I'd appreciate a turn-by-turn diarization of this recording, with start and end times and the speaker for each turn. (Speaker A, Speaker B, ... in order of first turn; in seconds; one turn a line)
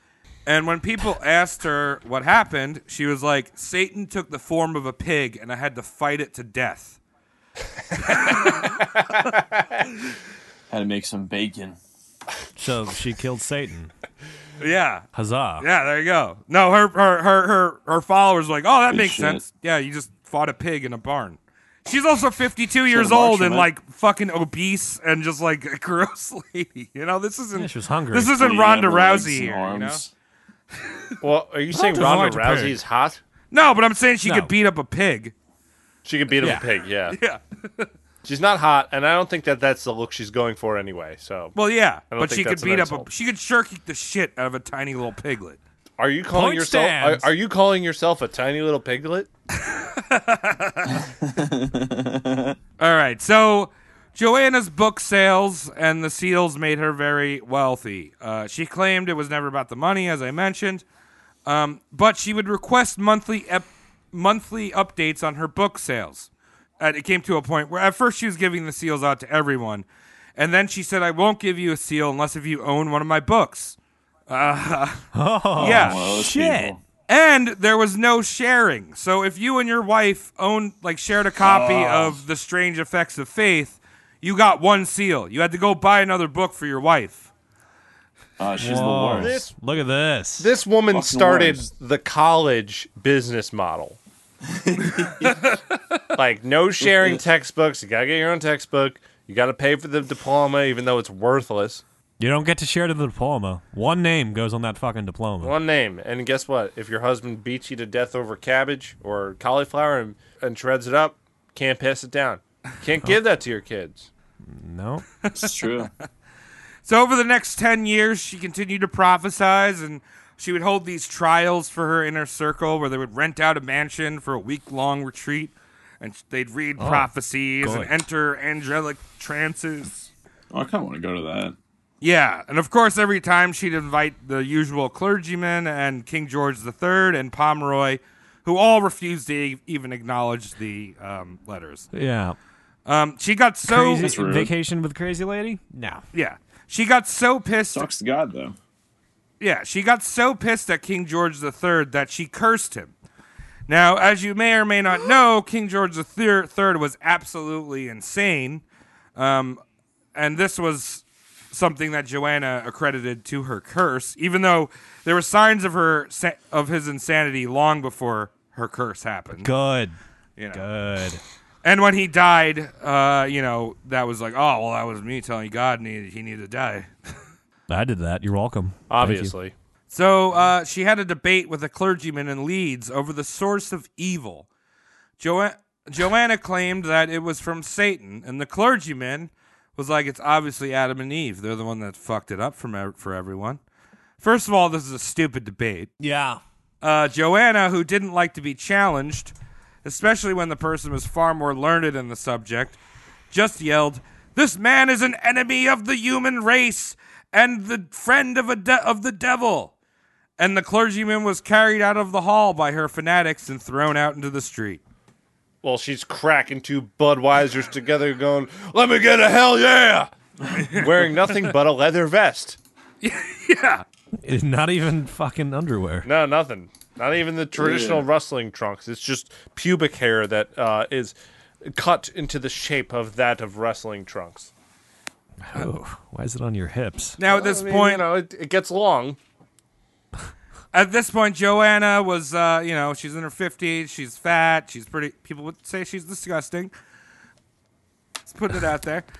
Speaker A: 0.5-7.0
Speaker A: 8.0-9.3
Speaker B: 10.7-11.8
Speaker C: 12.6-13.9
Speaker A: 14.6-15.1
Speaker C: 15.1-15.6
Speaker A: 15.6-30.0
Speaker B: 18.9-19.4
Speaker B: 22.9-23.7
Speaker C: 27.6-28.3
Speaker B: 28.3-30.1
Speaker D: 31.2-33.2
Speaker C: 31.7-32.8
Speaker A: 33.5-35.3
Speaker C: 34.2-34.5
Speaker D: 36.0-37.2
Speaker C: 36.4-36.6
Speaker A: 37.1-37.9
Speaker D: 38.2-41.5
Speaker A: 41.5-45.6
Speaker D: 42.1-43.1
Speaker D: 46.0-49.3
Speaker C: 46.3-47.3
Speaker A: 49.6-51.0
Speaker B: 51.0-52.6
Speaker A: 52.8-60.8
Speaker A: 61.5-66.3
Speaker A: 66.8-73.8
Speaker A: 74.3-75.0
Speaker C: 75.1-76.7
Speaker B: 75.5-76.8
Speaker A: 75.6-76.1
Speaker A: 77.1-87.3
Speaker B: 81.4-82.2
Speaker B: 88.4-89.3
Speaker C: 88.6-90.5
Speaker D: 89.2-89.5
Speaker D: 90.4-94.0
Speaker B: 90.9-91.6
Speaker B: 94.5-95.5
Speaker D: 96.1-101.8
Speaker B: 96.8-97.2
Speaker C: 102.2-105.5
Speaker D: 105.4-114.1
Speaker C: 114.5-115.1
Speaker B: 115.3-115.9
Speaker A: 116.8-130.1
Speaker C: 126.8-127.1
Speaker C: 127.6-127.9
Speaker B: 130.5-131.6
Speaker A: 132.0-141.9
Speaker C: 141.9-142.4
Speaker A: 142.8-144.1
Speaker C: 143.6-146.0
Speaker B: 144.0-144.5
Speaker A: 146.1-147.9
Speaker B: 147.7-148.6
Speaker A: 149.4-152.9
Speaker A: 153.7-158.6
Speaker A: 159.2-159.6
Speaker A: 160.1-169.5
Speaker C: 169.4-170.0
Speaker A: 170.4-170.6
Speaker C: 170.5-171.2
Speaker A: 171.6-176.9
Speaker C: 177.7-179.3
Speaker D: 178.9-179.5
Speaker A: 179.9-184.4
Speaker A: 185.2-193.6
Speaker A: 194.2-195.9
Speaker C: 196.0-196.4
Speaker A: 196.8-202.8
Speaker A: 203.3-209.7
Speaker A: 210.4-214.8
Speaker D: 215.6-220.1
Speaker D: 220.7-222.6
Speaker A: 223.0-223.8
Speaker C: 224.2-226.1
Speaker D: 226.0-234.5
Speaker B: 227.6-228.1
Speaker C: 235.4-237.2
Speaker A: 237.2-238.0
Speaker D: 237.3-239.2
Speaker A: 240.7-246.7
Speaker A: 248.3-249.1